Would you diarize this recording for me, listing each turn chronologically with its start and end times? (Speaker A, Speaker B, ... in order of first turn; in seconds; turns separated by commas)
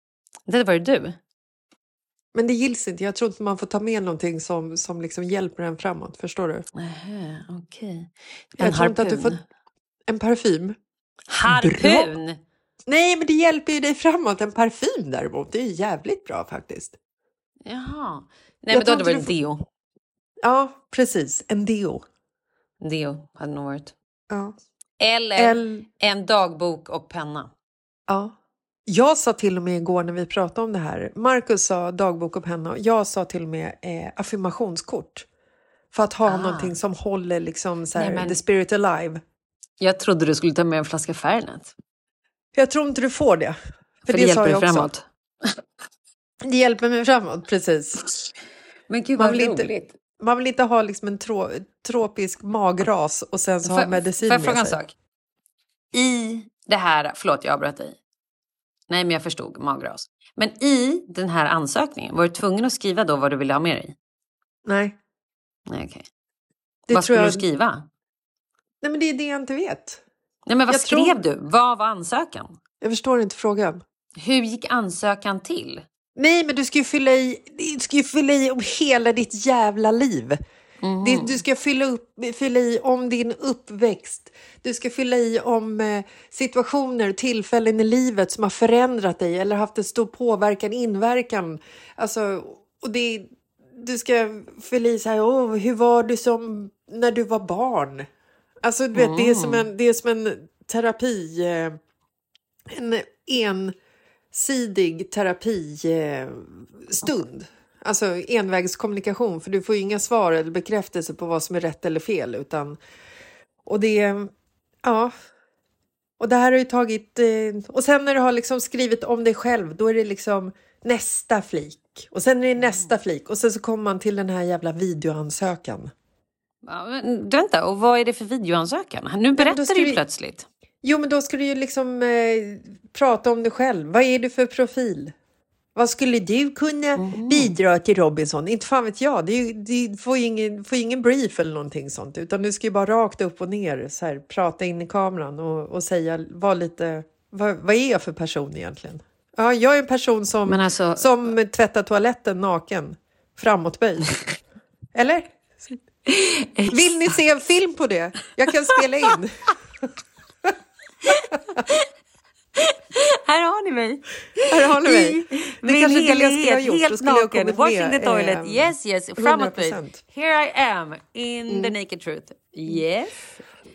Speaker A: 0.5-1.2, Speaker B: 2.3-6.7, Speaker A: 6.8-9.4, Speaker B: 8.6-9.4, Speaker B: 10.1-10.8, Speaker A: 11.3-12.4, Speaker B: 11.5-12.1, Speaker B: 12.9-17.0, Speaker A: 17.7-19.6, Speaker B: 18.7-19.3, Speaker B: 20.4-22.0, Speaker A: 22.8-23.9, Speaker B: 24.3-24.6, Speaker A: 25.0-27.5, Speaker B: 25.4-25.9, Speaker B: 28.1-28.3, Speaker B: 28.9-35.3, Speaker B: 35.9-39.2, Speaker A: 36.3-36.8, Speaker A: 38.0-38.4, Speaker A: 39.8-41.7, Speaker B: 42.5-44.9, Speaker A: 44.1-45.6, Speaker B: 46.4-48.1, Speaker A: 48.9-49.9, Speaker B: 49.2-54.8, Speaker A: 53.7-54.9, Speaker A: 55.9-58.0, Speaker A: 58.9-63.9, Speaker B: 64.7-65.0, Speaker A: 65.7-66.1, Speaker B: 66.9-67.4, Speaker A: 66.9-67.9, Speaker B: 68.8-70.0, Speaker A: 70.5-72.5, Speaker B: 70.7-71.2, Speaker B: 72.8-73.8, Speaker A: 74.2-75.8, Speaker B: 76.2-80.4, Speaker A: 80.8-81.4, Speaker B: 81.0-98.1, Speaker B: 98.6-101.8, Speaker A: 98.9-99.7, Speaker B: 102.7-103.8, Speaker B: 104.3-112.8, Speaker B: 113.7-114.3, Speaker B: 114.8-115.1, Speaker B: 116.2-125.9, Speaker A: 126.7-130.5, Speaker B: 129.4-130.0, Speaker B: 130.8-135.1, Speaker B: 135.8-154.2, Speaker A: 137.0-137.5, Speaker A: 150.5-151.1, Speaker B: 154.9-155.8, Speaker A: 156.1-157.2, Speaker B: 156.7-159.5, Speaker A: 158.8-159.1, Speaker A: 161.1-161.9, Speaker A: 162.6-173.3, Speaker B: 164.5-170.0, Speaker B: 171.5-171.7